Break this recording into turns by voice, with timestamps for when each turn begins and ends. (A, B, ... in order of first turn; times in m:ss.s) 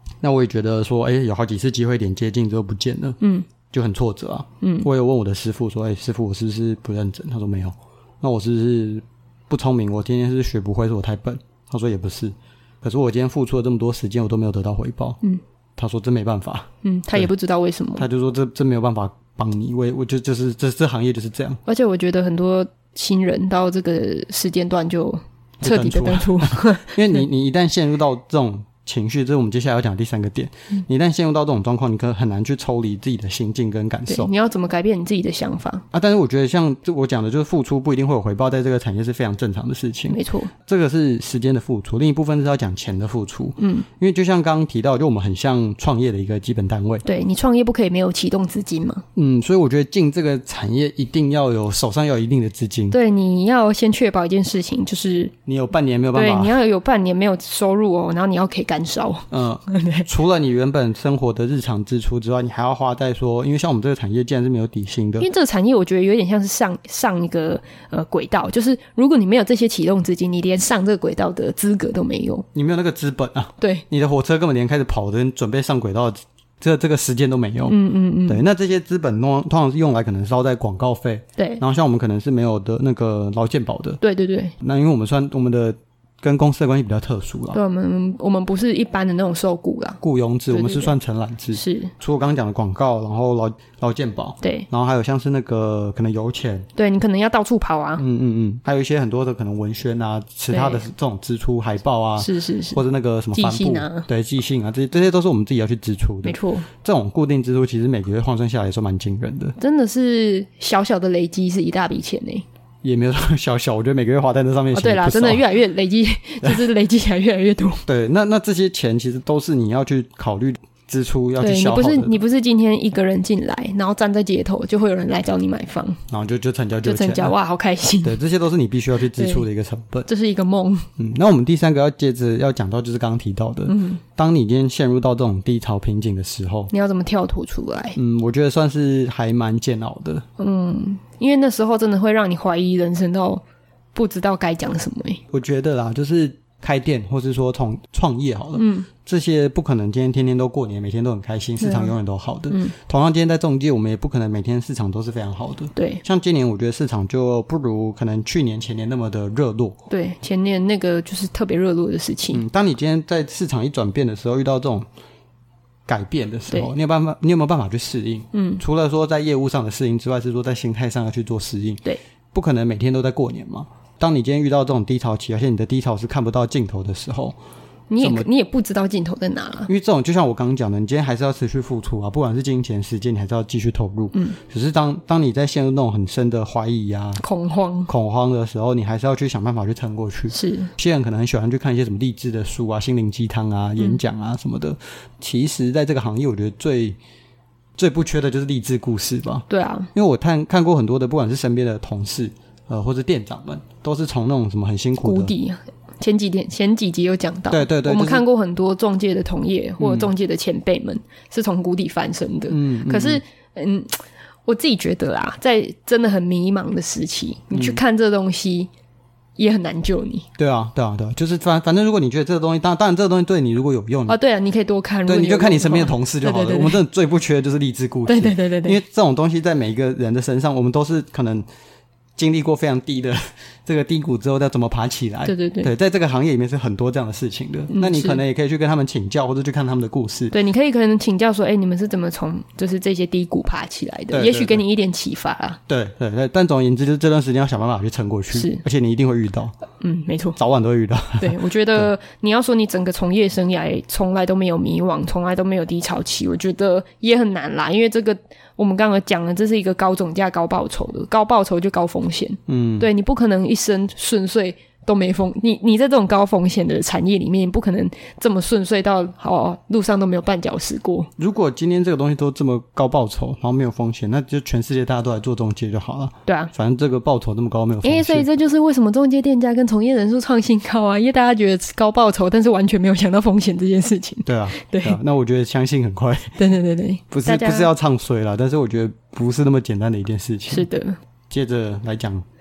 0:00.2-0:03.2 A
0:03.2-0:03.5 B
0:03.7-0:15.2 A
0:04.6-0:04.9 B
0:15.8-0:17.3 A
0:16.8-0:18.1 B
0:18.0-0:21.6 A
0:21.7-0:27.2 B
0:25.6-0:34.3 A
0:34.1-0:35.8 B
0:35.9-0:47.0 A
0:40.1-0:40.5 B
0:43.6-0:43.9 B
0:47.0-0:49.0 B
0:49.2-0:53.0 A
0:52.9-0:55.3 B
0:55.5-0:56.6 A
0:56.1-1:00.1 B
0:59.3-1:05.3 A
1:05.2-1:12.4 B
1:12.5-1:24.0 A
1:17.7-1:18.4 B
1:21.4-1:21.6 B
1:24.0-1:24.5 B
1:24.6-1:27.6 A
1:27.5-1:30.9 B
1:30.0-1:36.7 A
1:31.6-1:31.9 B
1:34.4-1:34.7 B
1:36.8-1:38.0 B
1:38.0-1:49.6 A
1:40.5-1:40.9 B
1:42.2-1:42.8 B
1:43.3-1:44.1 B
1:46.2-1:46.7 B
1:49.6-1:52.4 B
1:52.8-1:55.4 A
1:54.7-1:57.8 B
1:57.9-2:02.2 A
2:01.4-2:06.0 B
2:06.1-2:07.4 A
2:06.8-2:08.2 B
2:08.0-2:10.1 A
2:09.2-2:09.4 B
2:10.1-2:10.9 B
2:11.0-2:16.7 A
2:13.7-2:14.0 B
2:16.7-2:18.0 B
2:18.0-2:20.2 A
2:20.4-2:23.4 B
2:24.0-2:25.2 B
2:25.3-2:39.8 A
2:28.6-2:28.9 B
2:31.6-2:31.9 B
2:32.5-2:32.7 B
2:35.8-2:36.0 B
2:39.9-2:42.4 B
2:42.3-2:44.9 A
2:45.9-2:57.4 A
2:48.3-2:48.6 B
2:57.9-2:59.7 B
2:58.0-2:58.3 A
2:59.7-3:07.2 A
3:07.2-3:07.9 B
3:07.9-3:17.0 A
3:10.3-3:10.7 B
3:17.8-3:25.3 A
3:19.5-3:19.9 B
3:25.0-3:38.7 B
3:27.5-3:28.2 A
3:29.8-3:30.1 A
3:32.5-3:33.2 A
3:37.5-3:37.8 A
3:39.4-3:40.3 B
3:40.4-3:44.2 A
3:44.1-3:46.8 B
3:45.1-3:51.5 A
3:48.1-3:48.8 B
3:52.2-4:00.3 A
3:55.3-3:55.7 B
3:57.7-3:58.2 B
4:00.3-4:05.6 B
4:04.1-4:04.6 A
4:05.7-4:09.6 A
4:08.3-4:08.6 B
4:09.8-4:10.4 B
4:10.4-4:11.9 A
4:11.2-4:31.1 B
4:22.5-4:22.9 A
4:31.2-4:38.3 A
4:36.3-4:36.5 B
4:37.8-4:45.0 B
4:44.3-4:46.4 A
4:46.4-4:47.7 B
4:47.1-4:50.7 A
4:50.5-4:51.0 B
4:51.3-4:52.2 A